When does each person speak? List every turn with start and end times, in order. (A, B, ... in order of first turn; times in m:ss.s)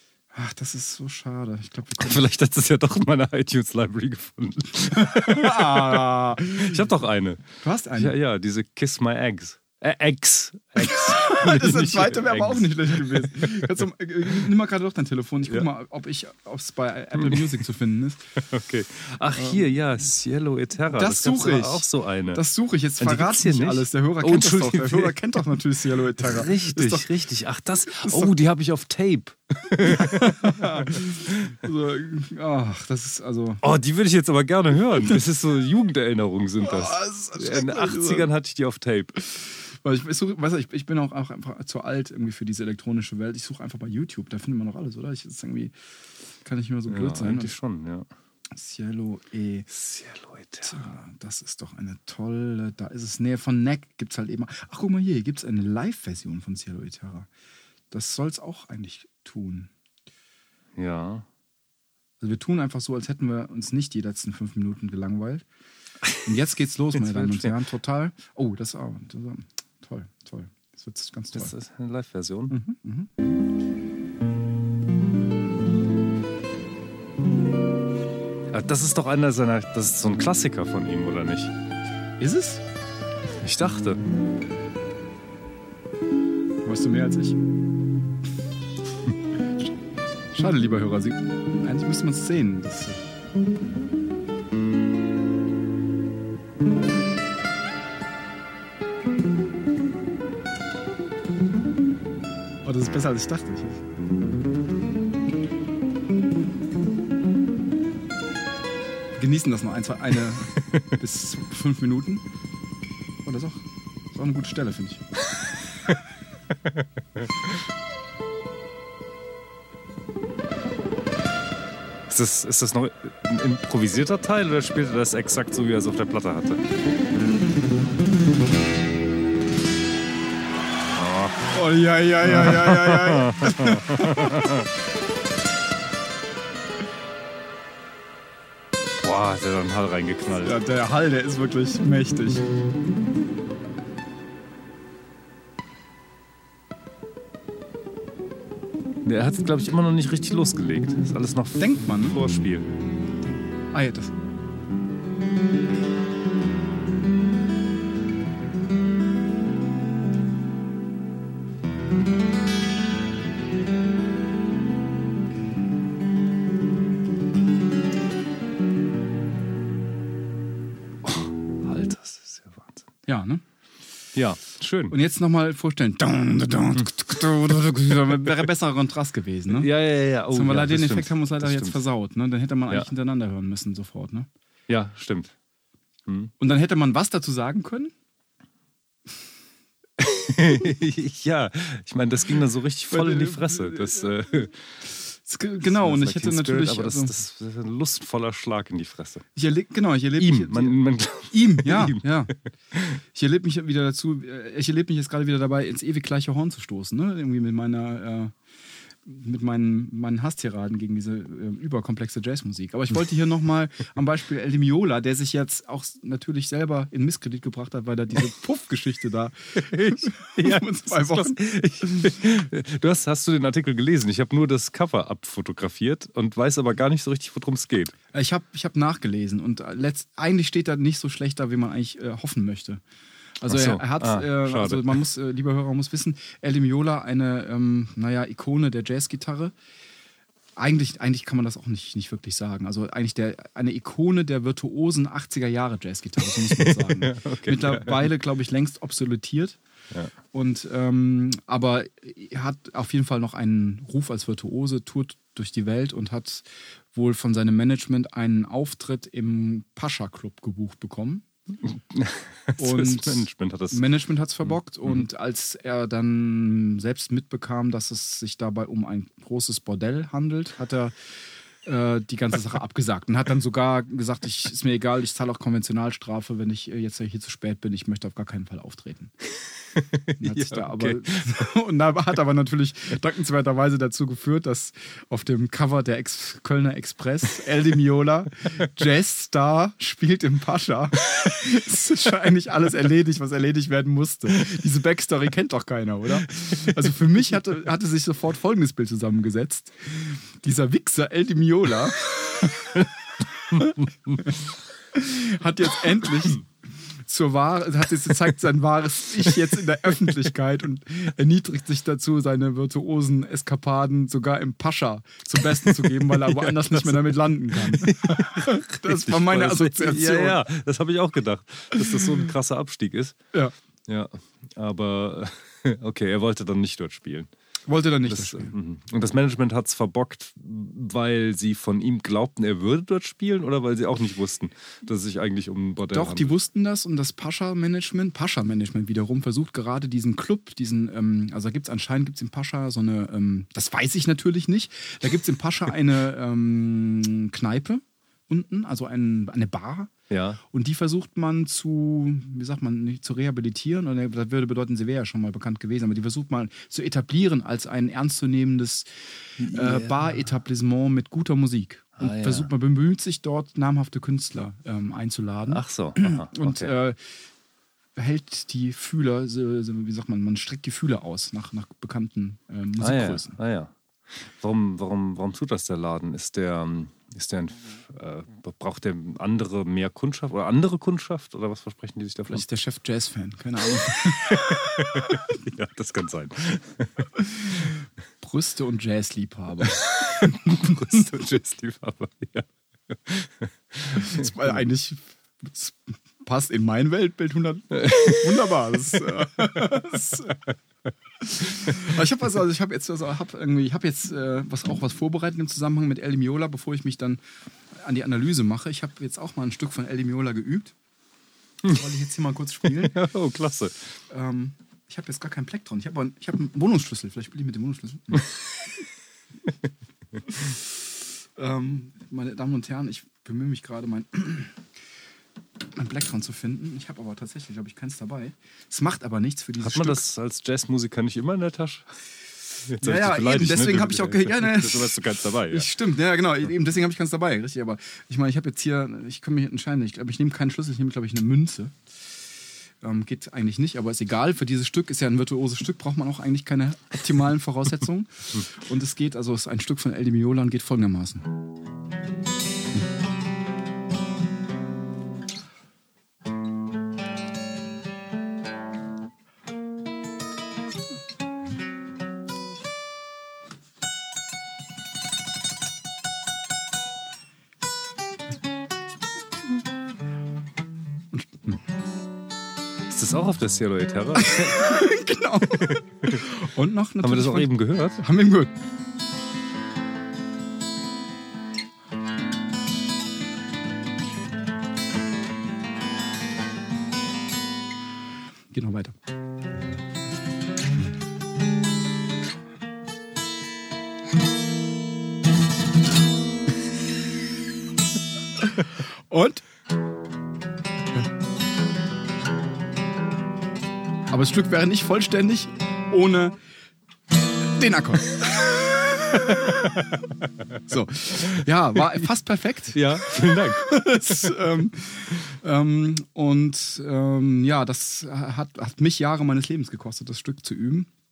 0:00.3-0:02.3 A
0:02.0-0:07.4 B
0:04.9-0:06.9 A
0:07.6-0:08.2 A
0:08.0-0:13.7 B
0:10.8-0:18.3 A
0:17.2-0:17.5 B
0:18.4-0:22.4 B
0:19.4-0:19.6 A
0:20.9-0:27.1 A
0:23.0-0:25.2 B
0:26.2-0:31.6 B
0:27.8-0:28.3 A
0:29.8-0:33.6 A
0:33.6-0:39.1 B
0:35.0-0:35.3 A
0:36.6-0:38.3 A
0:39.7-0:45.7 A
0:46.4-0:47.5 A
0:46.9-0:48.1 B
0:48.5-0:49.7 A
0:49.7-0:50.8 B
0:50.6-0:57.3 A
0:57.9-0:59.7 A
1:00.8-1:01.3 B
1:02.2-1:05.4 A
1:06.0-1:06.3 B
1:06.2-1:11.5 A
1:06.9-1:07.5 B
1:11.3-1:12.6 B
1:12.5-1:13.1 A
1:18.5-1:21.5 B
1:22.2-1:22.6 A
1:23.4-1:24.0 B
1:26.6-1:27.4 A
1:30.3-1:33.1 A
1:42.6-1:43.8 A
1:49.2-1:52.2 A
1:53.2-1:55.0 A
2:02.1-2:06.6 B
2:10.9-2:11.5 B
2:11.5-2:14.6 A
2:12.2-2:14.7 B
2:19.0-2:20.6 B
2:20.4-2:22.5 A
2:29.0-2:32.7 B
2:31.6-2:32.2 A
2:33.7-2:34.1 A
2:51.0-2:52.8 B
2:53.1-2:53.4 A
2:54.1-2:54.9 B
2:54.9-2:59.7 A
2:56.8-2:57.2 B
2:57.9-2:58.4 B
2:59.5-3:01.8 B
3:00.3-3:04.3 A
3:04.7-3:05.3 B
3:06.1-3:06.3 B
3:06.4-3:07.9 A
3:10.0-3:14.7 B
3:12.9-3:14.2 A
3:15.1-3:17.2 A
3:15.6-3:19.2 B
3:19.4-3:22.3 A
3:20.2-3:22.0 B
3:22.7-3:23.0 B
3:22.9-3:28.3 A
3:29.0-3:42.1 A
3:39.6-3:47.9 B
3:48.1-3:52.8 A
3:53.4-3:59.5 A
3:53.5-3:55.0 B
4:00.6-4:09.6 A
4:06.3-4:08.1 B
4:10.3-4:21.3 A
4:21.7-4:23.9 B
4:22.6-4:30.9 A
4:31.6-4:39.1 A
4:39.8-4:41.3 B
4:40.2-5:06.5 A
5:07.0-5:20.4 A
5:15.4-5:23.2 B
5:23.9-5:27.3 B
5:27.7-5:28.5 A
5:28.1-5:36.4 B
5:35.9-5:49.9 A
5:50.1-5:50.4 B
5:50.5-6:07.2 A
5:59.4-6:00.0 B
6:02.0-6:02.5 B
6:05.5-6:06.7 B
6:08.0-6:13.4 A
6:12.8-6:22.4 B
6:22.3-6:25.4 A
6:23.9-6:27.7 B
6:27.2-6:31.1 A
6:29.8-6:34.5 B
6:33.9-6:40.4 A
6:37.8-6:38.5 B
6:41.2-6:47.2 A
6:47.7-6:50.7 A
6:51.6-6:53.0 A
6:52.6-6:53.9 B
6:54.1-6:58.4 A
7:00.3-7:00.6 A
7:01.4-7:04.6 A
7:05.7-7:10.0 A
7:09.6-7:11.9 B
7:12.6-7:15.7 B
7:12.8-7:21.7 A
7:22.8-7:31.3 A
7:51.1-7:51.6 A
7:52.9-7:54.9 B
7:54.1-7:58.5 A
7:55.6-7:56.2 B
7:57.0-7:58.0 B
8:08.5-8:08.9 A
8:18.4-8:19.4 A
8:24.1-8:26.4 A
8:27.5-8:30.0 A
8:29.3-8:30.3 B
8:30.6-8:40.9 A
8:32.7-8:34.4 B